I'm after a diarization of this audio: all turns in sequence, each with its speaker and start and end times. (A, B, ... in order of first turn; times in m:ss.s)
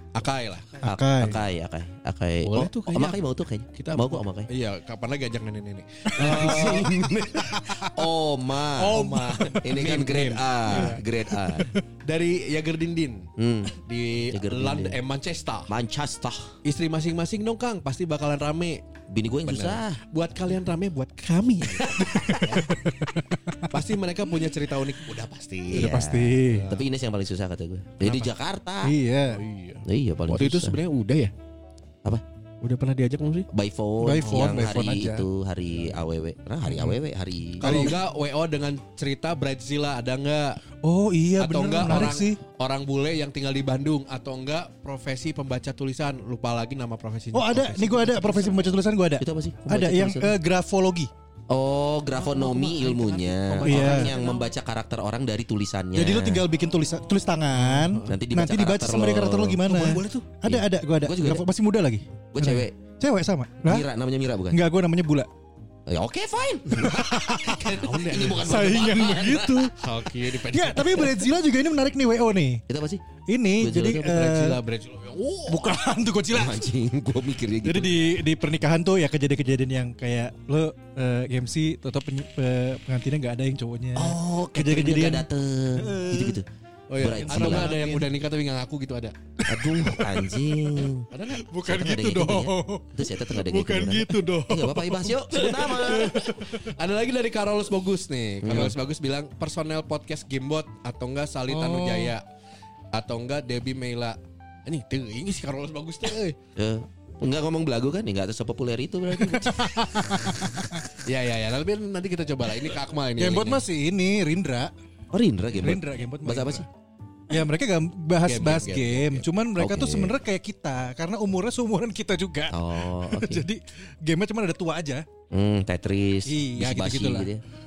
0:00.1-0:00.8 A
0:00.8-0:01.4 B
0:00.8-0:04.5 C
0:02.4-0:03.2 A
0:03.7-0:07.7 A
0:06.2-0:11.7 C
0:06.2-0:06.8 B
0:08.8-0:11.0 A
0:08.8-0:09.6 B
0:10.7-0:11.0 B
0:12.0-0:15.7 A
0:13.4-0:13.7 C
0:14.3-0:15.0 C
0:15.7-0:16.5 C
0:16.6-0:18.8 A
0:19.1-0:20.0 C
0:19.5-0:22.8 A
0:22.4-0:23.7 B
0:23.7-0:26.0 A
0:25.7-0:28.9 C
0:25.7-0:26.7 B
0:26.5-0:26.8 A
0:28.0-0:28.3 A
0:28.8-0:29.4 B
0:29.3-0:31.3 A
0:29.8-0:30.8 C
0:32.6-0:33.5 A
0:33.5-0:37.9 C
0:34.0-0:35.3 B
0:37.6-0:38.0 B
0:37.6-0:40.6 A
0:40.8-0:42.4 B
0:41.4-0:48.5 A
0:47.3-0:51.1 B
0:49.2-0:50.3 C
0:51.5-0:56.4 C
0:52.2-0:54.4 A
0:53.6-0:54.1 B
0:55.9-1:03.9 B
0:57.6-0:58.2 A
0:58.1-0:59.6 C
0:59.6-1:00.3 A
1:00.4-1:01.4 C
1:02.3-1:02.7 C
1:03.6-1:04.6 C
1:04.5-1:05.3 B
1:05.9-1:09.7 C
1:06.8-1:07.6 B
1:07.6-1:08.7 A
1:08.4-1:09.7 B
1:09.8-1:11.2 A
1:10.5-1:12.6 B
1:12.7-1:13.0 C
1:13.3-1:14.6 B
1:13.6-1:14.0 C
1:13.9-1:15.7 A
1:15.5-1:16.7 B
1:16.3-1:17.9 C
1:17.6-1:26.4 B
1:24.0-1:26.4 C
1:26.9-1:29.1 A
1:27.0-1:27.8 C
1:27.1-1:28.1 B
1:29.4-1:30.5 B
1:29.5-1:31.1 C
1:31.1-1:31.5 A
1:31.4-1:36.7 B
1:31.6-1:36.2 C
1:35.4-1:42.2 A
1:38.4-1:38.8 C
1:41.5-1:42.1 B
1:42.9-1:46.4 A
1:46.6-1:49.7 C
1:49.1-1:50.8 B
1:51.0-1:53.6 A
1:53.2-1:54.7 B
1:55.1-1:56.6 C
1:55.6-1:56.7 B
1:57.3-2:05.1 B
1:58.2-1:59.2 A
1:59.6-2:00.1 C
2:02.5-2:03.4 C
2:05.3-2:07.4 C
2:06.2-2:07.3 B